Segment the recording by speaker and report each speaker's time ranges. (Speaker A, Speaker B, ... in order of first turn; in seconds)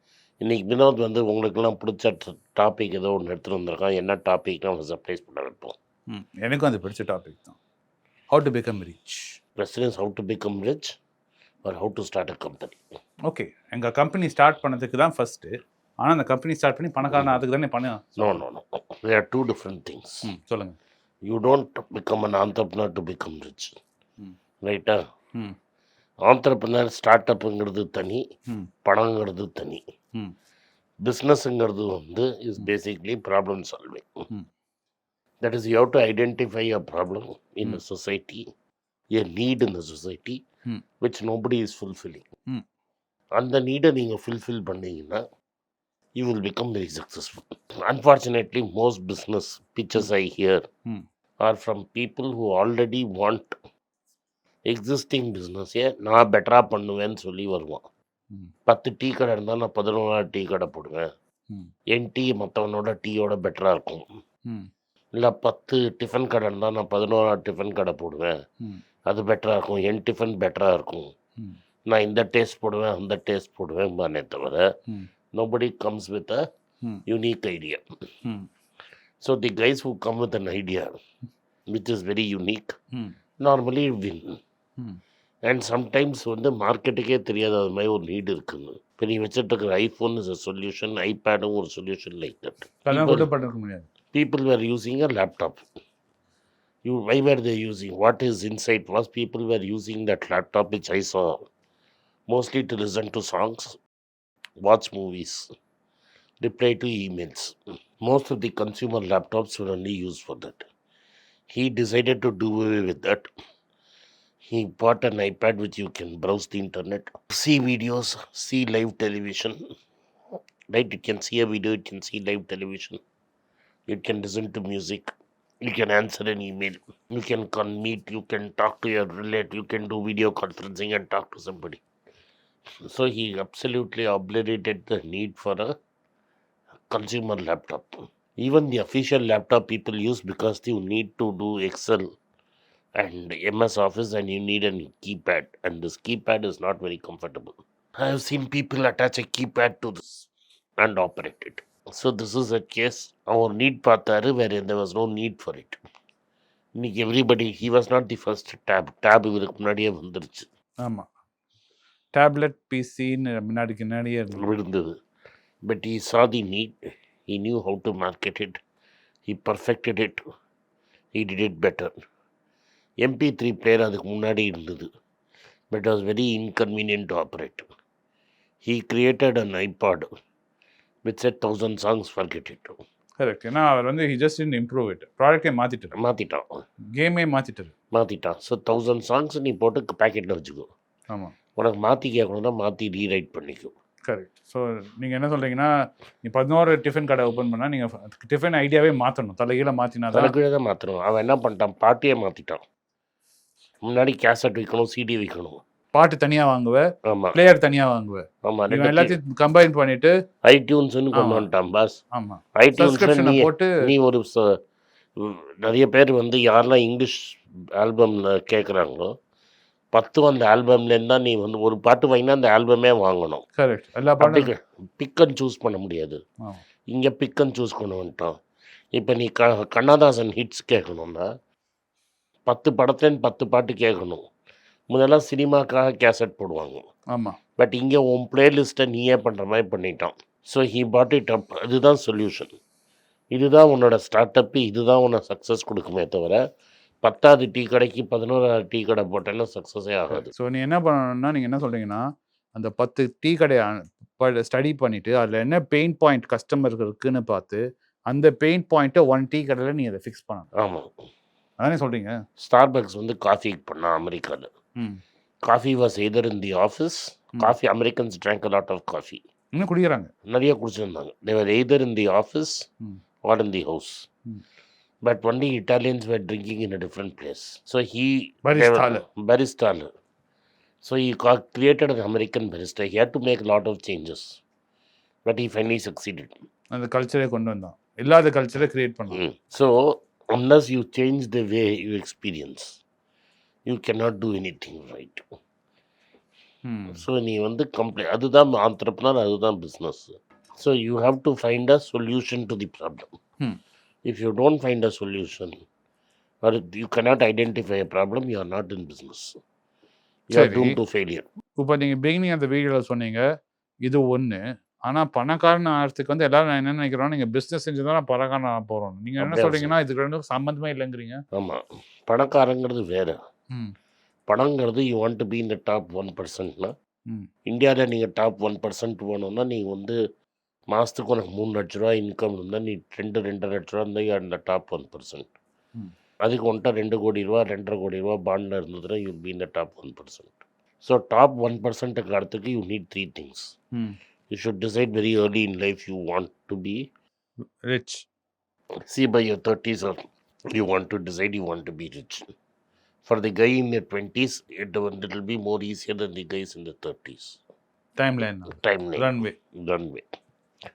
Speaker A: 0.4-5.8, 9.6-10.9, 11.7-12.8, 17.0-17.4, 18.2-20.3, 21.3-23.7, 24.6-25.0, 26.2-28.2, 28.9-29.8, 31.0-34.1, 35.4-38.4, 39.1-40.4, 41.0-42.3, 43.4-45.2, 46.2-50.6, 51.4-53.6, 54.7-57.8, 58.7-61.1, 62.0-64.0, 65.2-68.3, 69.1-71.1, 71.9-74.7, 75.3-76.4, 77.1-77.8, 79.2-80.9, 81.7-82.8, 83.4-84.4, 85.5-93.3, 94.1-95.6, 96.8-101.4, 102.3-103.8, 104.6-105.5, 106.4-110.7, 111.5-113.3, 114.4-119.6, 120.7-123.0, 123.9-125.1, 125.6-131.8, 132.8-135.7, 136.9-142.1, 143.0-150.3, 150.8-155.8, 156.8-160.5, 164.3-164.9, 165.7-168.6, 169.3-170.2, 171.2-171.9, 173.0-174.9, 175.7-177.7, 178.6-180.1, 181.1-182.8, 185.9-186.6, 187.9-190.7, 191.6-193.7, 200.1-202.6, 203.8-205.6, 207.1-207.4, 208.4-209.2, 210.4-212.0, 212.6-214.6, 215.2-219.1, 219.9-223.4, 224.2-226.2, 226.9-228.3, 228.9-231.3, 232.5-234.2, 234.9-236.8, 237.6-242.6, 243.3-246.4, 247.0-250.3, 260.6-260.9, 262.4-264.5, 265.5-269.2, 270.3-272.6, 273.3-274.1, 275.1-279.9, 280.8-284.4, 285.3-286.4, 289.1-292.8, 293.7-295.2, 296.9-303.1, 304.1-305.6, 306.4-309.3, 310.3-311.3, 319.2-319.8, 321.3-323.2, 324.3-326.7, 327.5-330.0, 330.7-335.3, 336.2-343.5, 344.3-346.9, 348.9-350.0, 350.5-352.2, 353.1-357.4, 358.6-360.1
Speaker B: 6.1-7.6, 8.3-9.4, 13.3-18.3, 20.3-20.8, 92.9-93.9, 162.2-164.5, 183.2-185.9, 186.9-187.7, 194.1-195.7, 196.2-200.3, 205.9-210.1, 211.2-211.5, 212.2-213.7, 223.6-224.5, 250.1-252.0, 252.6-260.5, 261.6-262.2, 269.6-270.1, 278.5-279.0, 286.7-289.2, 296.7-297.0, 310.3-310.7, 311.6-313.2, 313.9-321.2, 347.7-348.0, 358.0-359.3